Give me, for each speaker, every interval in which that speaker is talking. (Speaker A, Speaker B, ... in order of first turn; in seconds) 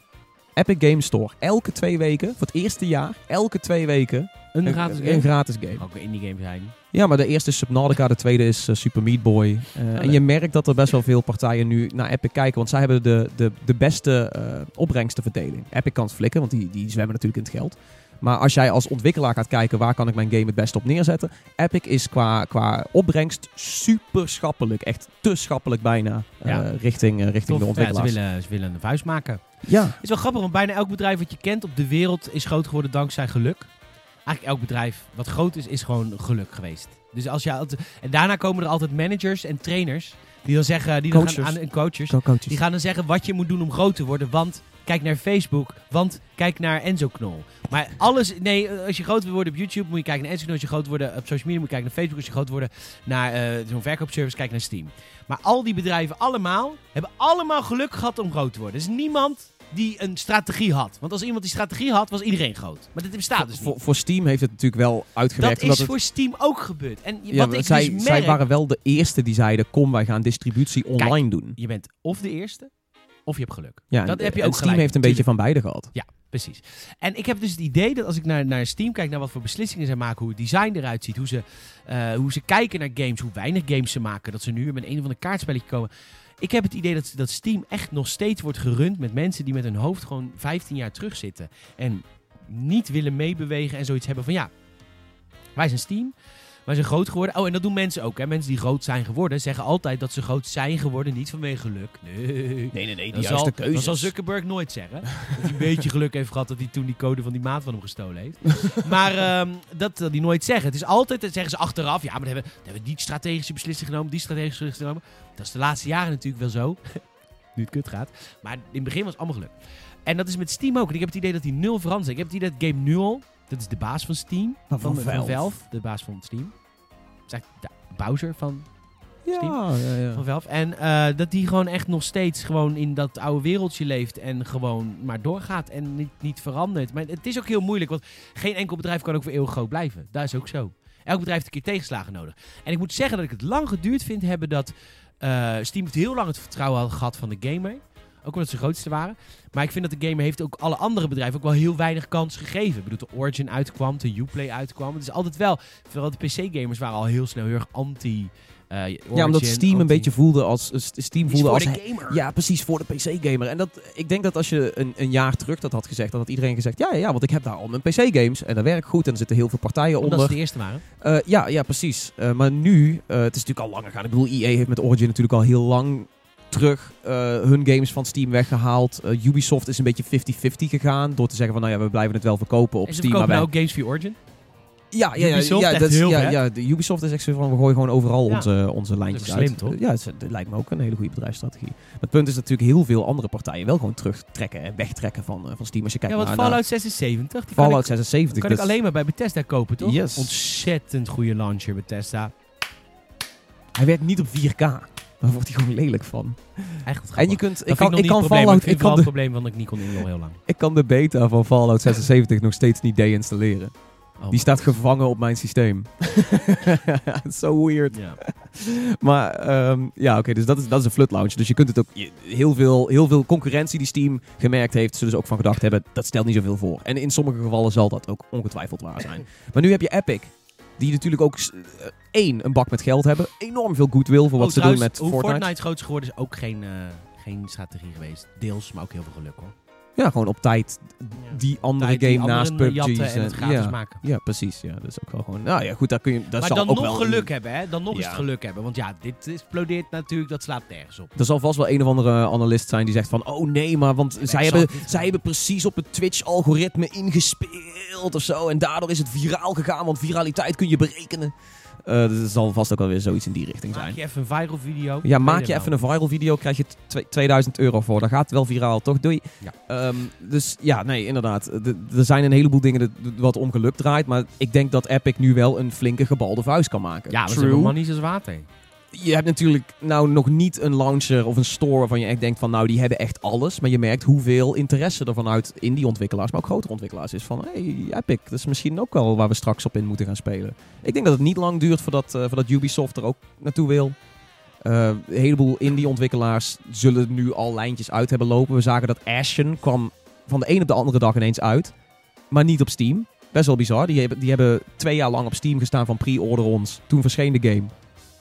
Speaker A: 0.6-5.8, 6.9-28.2, 29.6-30.0, 41.1-42.6, 63.4-65.9, 67.3-71.5, 73.9-75.9, 102.7-104.1, 124.7-125.5, 129.2-130.2, 159.1-170.4, 171.0-183.5, 184.9-196.6, 197.5-198.8, 199.8-200.3, 203.7-209.1, 210.5-213.7, 214.3-235.5, 240.0-247.3, 247.9-248.2, 251.2-261.3, 261.8-264.0, 265.0-277.8, 278.9-293.9, 294.6-301.7, 302.3-307.7
Speaker B: 4.5-6.7, 9.9-10.2, 27.4-33.7, 34.2-63.7, 65.4-68.4, 71.0-72.7, 73.2-75.3, 75.9-85.9, 86.4-94.5, 95.5-96.1, 96.7-117.0, 117.5-119.5, 120.0-126.5, 127.3-128.7, 129.3-160.1, 161.2-162.2, 170.0-170.8, 182.8-184.2, 185.2-186.4, 189.1-189.8, 196.1-202.3, 206.8-210.4, 214.2-214.7, 217.9-218.2, 234.4-239.5, 241.2-244.0, 246.4-251.1, 254.2-255.2, 263.7-265.7, 277.1-278.5